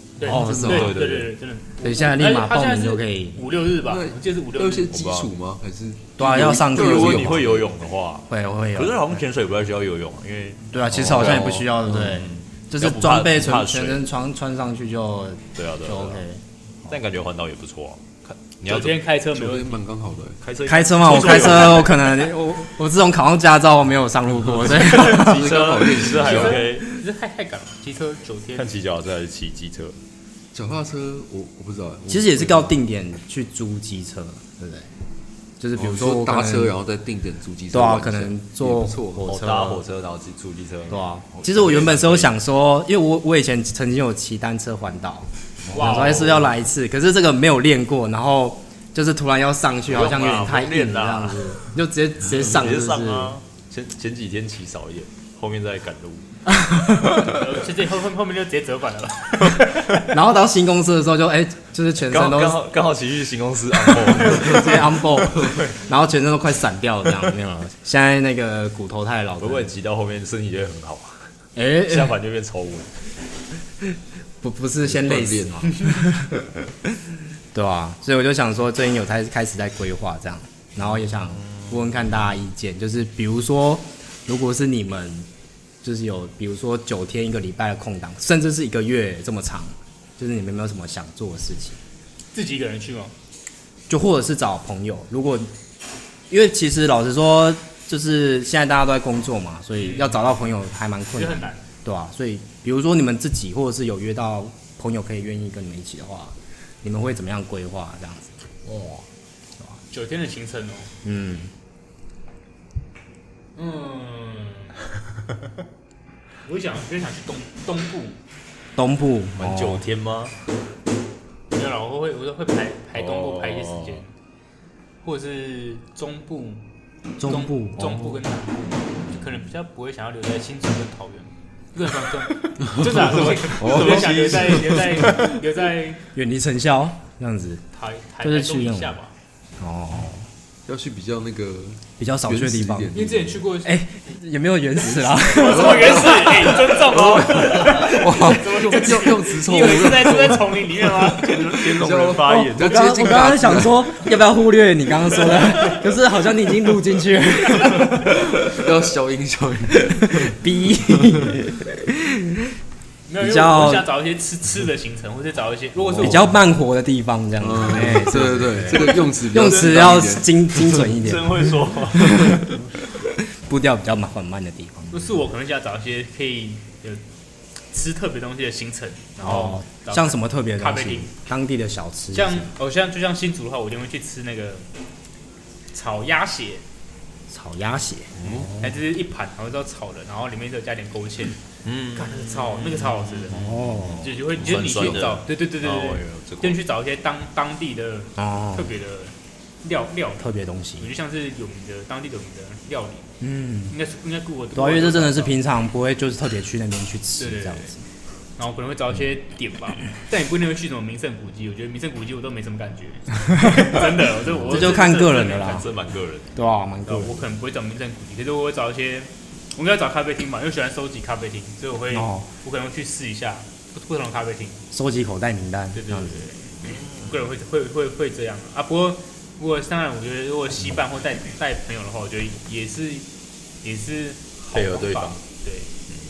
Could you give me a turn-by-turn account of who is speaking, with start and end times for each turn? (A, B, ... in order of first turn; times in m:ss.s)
0:00.2-0:05.0 A
0:00.2-0:01.0 B
0:00.2-0:01.0 C
0:00.5-0:01.3 D
0:01.8-0:03.4 B
0:03.8-0:07.7 C
0:04.9-0:05.3 D
0:06.2-0:07.4 B
0:06.3-0:14.0 D
0:08.3-0:09.2 B
0:10.7-0:16.9 B
0:15.5-0:16.2 D
0:16.9-0:19.0 D
0:18.6-0:19.8 A
0:19.3-0:20.4 C
0:20.4-0:22.1 D
0:20.7-0:25.4 B
0:21.1-0:21.7 A
0:24.6-0:26.8 D
0:24.9-0:26.6 C
0:26.2-0:28.7 A
0:28.5-0:30.0 D
0:30.5-0:32.7 C
0:32.1-0:34.9 B
0:35.6-0:36.7 B
0:35.8-0:39.2 C
0:37.7-0:39.8 B
0:39.3-0:42.3 D
0:40.9-0:53.3 B
0:45.7-0:46.5 A
0:49.9-0:51.6 D
0:52.2-0:56.2 D
0:56.5-0:57.3 B
0:57.2-1:00.0 A
1:00.0-1:02.6 B
1:02.1-1:04.8 D
1:03.8-1:09.7 B
1:09.4-1:11.3 D
1:11.6-1:12.2 B
1:11.8-1:12.9 D
1:14.4-1:16.1 B
1:14.8-1:15.8 C
1:17.5-1:25.3 B
1:21.5-1:21.7 D
1:25.8-1:31.8 B
1:32.3-1:33.1 A
1:33.9-1:35.5 B
1:36.3-1:48.3 B
1:39.8-1:40.3 A
1:41.1-1:41.6 A
1:49.9-1:50.9 A
1:51.0-1:51.5 B
1:53.5-1:54.8 A
1:56.4-1:58.2 A
1:58.8-1:59.8 B
1:59.4-2:00.3 D
2:01.5-2:04.1 A
2:02.9-2:04.0 D
2:05.0-2:06.6 A
2:07.2-2:08.0 B
2:07.2-2:16.0 A
2:12.6-2:15.4 D
2:12.7-2:13.0 C
2:13.5-2:14.8 C
2:16.1-2:17.6 B
2:17.7-2:19.1 A
2:18.2-2:19.0 B
2:19.6-2:20.3 B
2:20.6-2:23.5 C
2:22.0-2:22.9 B
2:22.9-2:23.8 A
2:23.6-2:26.8 B
2:24.9-2:32.0 A
2:25.3-2:33.9 C
2:31.4-2:32.9 D
2:32.2-2:38.6 B
2:38.1-2:41.3 C
2:39.7-2:42.0 B
2:43.1-2:46.4 A
2:43.2-2:43.9 B
2:45.8-2:46.2 C
2:46.0-2:55.2 B
2:47.4-2:50.7 C
2:50.7-2:52.2 D
2:54.9-2:57.0 A
2:57.7-3:01.1 A
2:59.2-3:02.5 B
3:02.1-3:04.7 A
3:05.7-3:06.6 A
3:07.3-3:08.8 B
3:08.2-3:08.5 D
3:08.6-3:11.4 A
3:11.6-3:16.6 D
3:11.9-3:20.2 A
3:13.3-3:14.1 B
3:14.4-3:15.1 C
3:18.2-3:18.7 B
3:20.2-3:20.9 B
3:20.8-3:23.1 A
3:23.2-3:23.7 B
3:23.7-3:25.4 A
3:24.5-3:27.8 B
3:27.2-3:27.7 A
3:28.4-3:35.7 A
3:33.3-3:35.6 B
3:34.5-3:34.8 D
3:35.4-3:36.3 D
3:36.3-3:37.2 B
3:36.9-3:44.6 A
3:41.9-3:42.3 B
3:44.7-3:46.2 B
3:45.7-3:53.1 A
3:46.6-3:47.2 D
3:53.6-3:55.7 A
3:54.5-3:55.2 D